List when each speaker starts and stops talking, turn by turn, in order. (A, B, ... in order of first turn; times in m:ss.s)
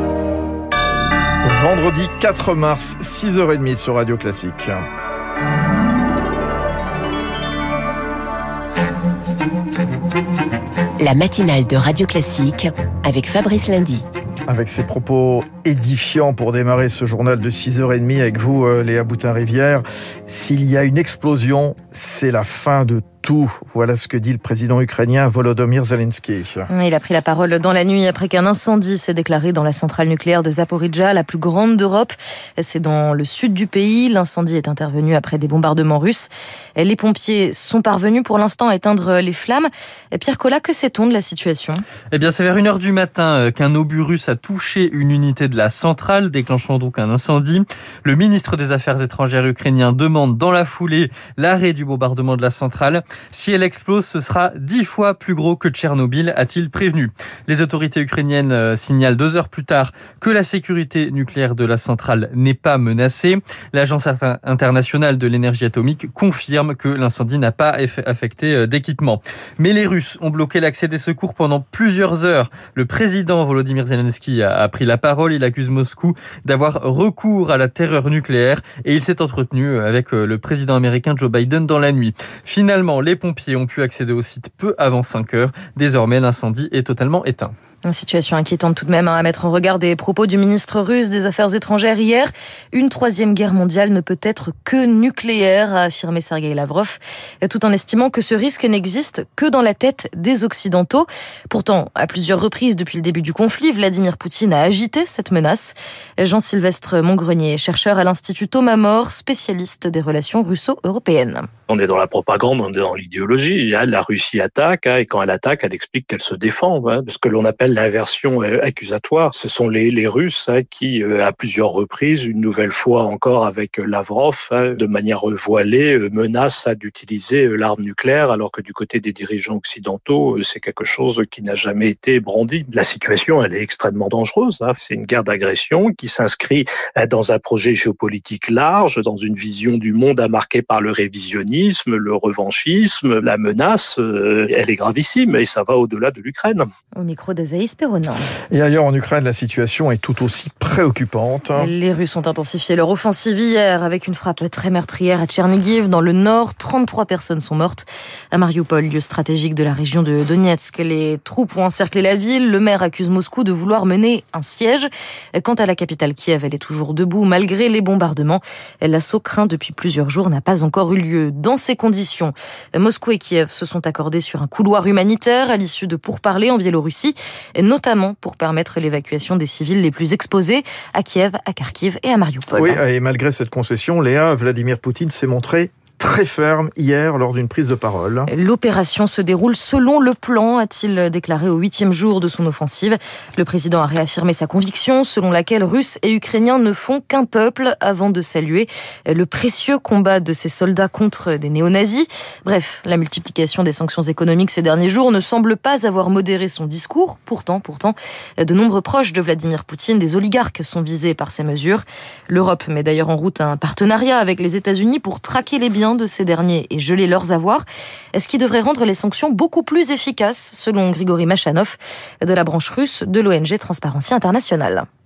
0:01.4-0:04.8 A
0:11.0-0:14.0 B
0:14.5-0:26.7 A
0:26.7-0:41.8 C
0:42.1-1:27.5 D
1:27.8-1:51.5 C
1:51.7-2:26.6 E
2:27.0-2:28.3 C
2:28.5-2:31.7 A
2:31.6-3:02.8 C
3:02.5-3:08.3 A
3:08.3-3:44.8 C